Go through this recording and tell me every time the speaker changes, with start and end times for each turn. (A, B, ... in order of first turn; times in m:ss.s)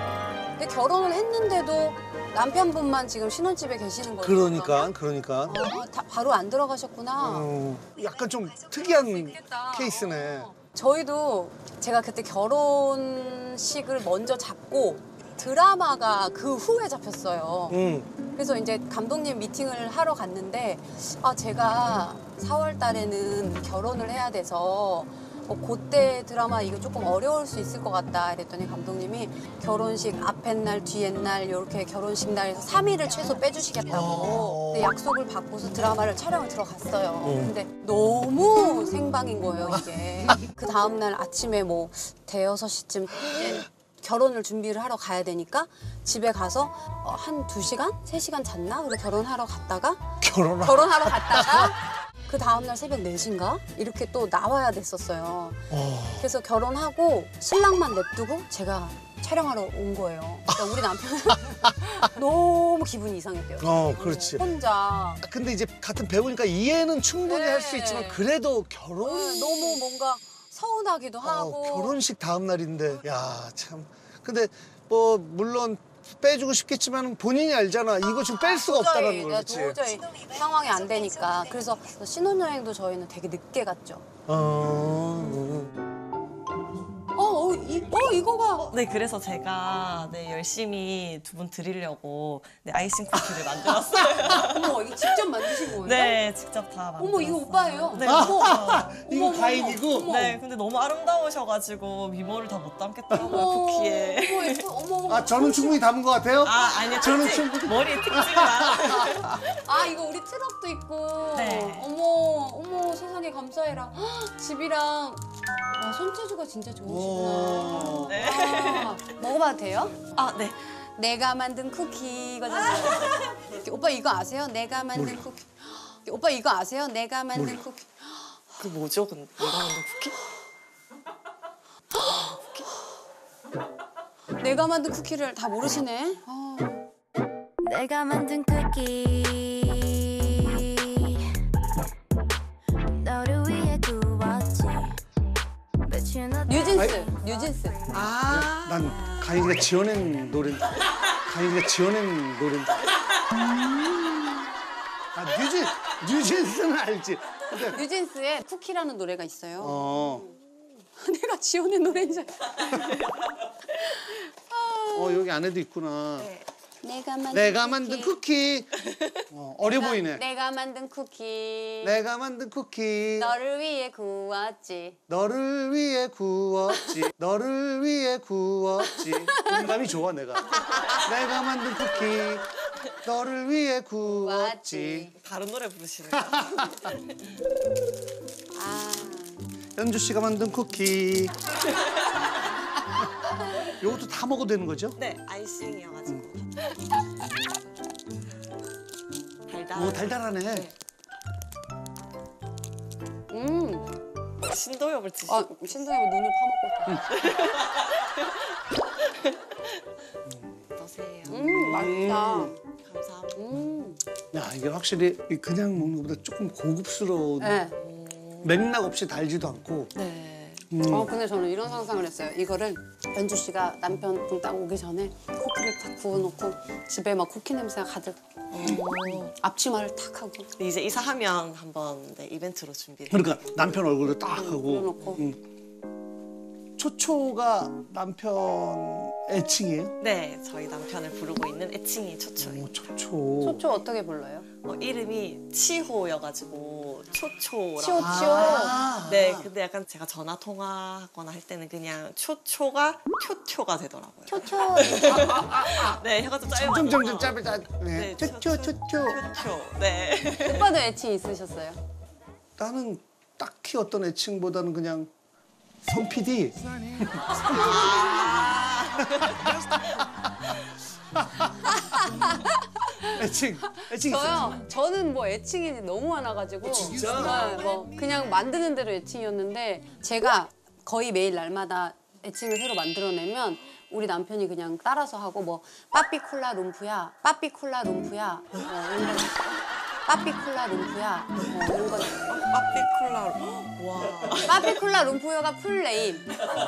0:00.6-0:04.9 A
0:04.2-0:05.6 B
0:05.5-0:07.5 A
0:07.2-0:10.5 B
0:09.3-1:05.2 A
0:17.7-0:18.1 B
0:33.9-0:35.0 B
0:37.2-0:37.5 B
0:43.3-0:43.6 B
0:50.2-0:51.7 B
0:55.7-0:56.3 B
1:03.6-1:04.4 B
1:05.2-1:09.8 B
1:07.2-1:08.3 A
1:09.0-1:12.0 A
1:11.2-1:19.8 B
1:18.3-1:24.0 A
1:24.3-1:25.7 B
1:27.2-1:28.8 A
1:28.7-1:38.9 C
1:34.2-1:36.2 A
1:37.0-1:40.4 A
1:38.0-1:40.2 B
1:40.0-1:44.7 C
1:43.1-1:45.8 A
1:45.1-1:49.4 B
1:46.4-1:49.4 C
1:49.5-2:00.1 A
1:51.3-1:51.9 C
1:56.8-1:58.2 B
1:58.1-1:59.0 C
2:00.1-2:00.7 C
2:01.0-2:08.4 A
2:05.0-2:05.2 B
2:07.4-2:07.6 B
2:08.6-2:10.2 C
2:11.9-2:12.7 C
2:14.4-2:16.8 A
2:17.6-2:21.3 D
2:22.9-2:25.0 D
2:25.9-2:27.7 D
2:26.5-2:28.0 A
2:26.7-2:27.0 B
2:27.9-2:32.8 B
2:28.0-2:29.0 C
2:35.2-2:37.8 B
2:37.7-2:40.3 A
2:39.6-2:40.3 B
2:41.0-2:43.0 A
2:42.6-2:43.1 C
2:43.7-2:45.3 A
2:44.9-2:46.3 B
2:46.2-2:46.5 C
2:46.8-2:48.2 A
2:47.3-2:48.8 B
2:48.8-2:49.2 C
2:49.3-2:50.2 B
2:49.7-2:52.0 A
2:51.8-2:53.3 B
2:53.2-2:55.0 A
2:55.1-3:02.5 B
2:59.0-2:59.6 A
3:00.7-3:01.0 A
3:00.7-3:01.0 C
3:03.0-3:05.1 B
3:04.1-3:05.2 A
3:05.2-3:07.0 C
3:06.2-3:06.9 B
3:08.5-3:09.4 A
3:09.8-3:11.4 B
3:13.7-3:15.0 B
3:15.0-3:16.7 C
3:19.5-3:20.7 C
3:19.8-3:20.7 B
3:23.3-3:23.9 A
3:24.4-3:25.8 C
3:25.3-3:27.1 A
3:27.1-3:29.7 C
3:30.8-3:32.1 C
3:31.3-3:32.6 A
3:31.5-3:32.5 B
3:32.8-3:33.6 C
3:33.4-3:34.0 A
3:34.3-3:37.6 B
3:37.4-3:37.8 A
3:37.8-3:38.6 C
3:38.4-3:39.9 B
3:39.9-3:40.7 C
3:40.7-3:41.1 B
3:40.9-3:50.5 A
3:48.5-3:49.3 C
3:50.6-3:53.8 C
3:53.1-3:55.4 B
3:54.3-3:55.2 A
3:56.8-4:00.0 B
4:00.0-4:02.8 C
4:02.4-4:03.6 B
4:03.4-4:04.5 A
4:04.6-4:20.7 C
4:07.8-4:08.8 A
4:08.0-4:09.5 B
4:14.3-4:15.4 A
4:15.1-4:19.2 B
4:20.4-4:21.8 A
4:22.6-4:25.1 B
4:25.8-4:28.0 B
4:27.3-4:30.8 C
4:27.4-4:28.1 A
4:29.0-4:30.3 B
4:31.2-4:32.1 B
4:31.6-4:52.2 A
4:33.1-4:34.6 B
4:36.6-4:37.9 B
4:36.9-4:37.2 C
4:52.2-4:54.8 C
4:54.5-4:56.3 A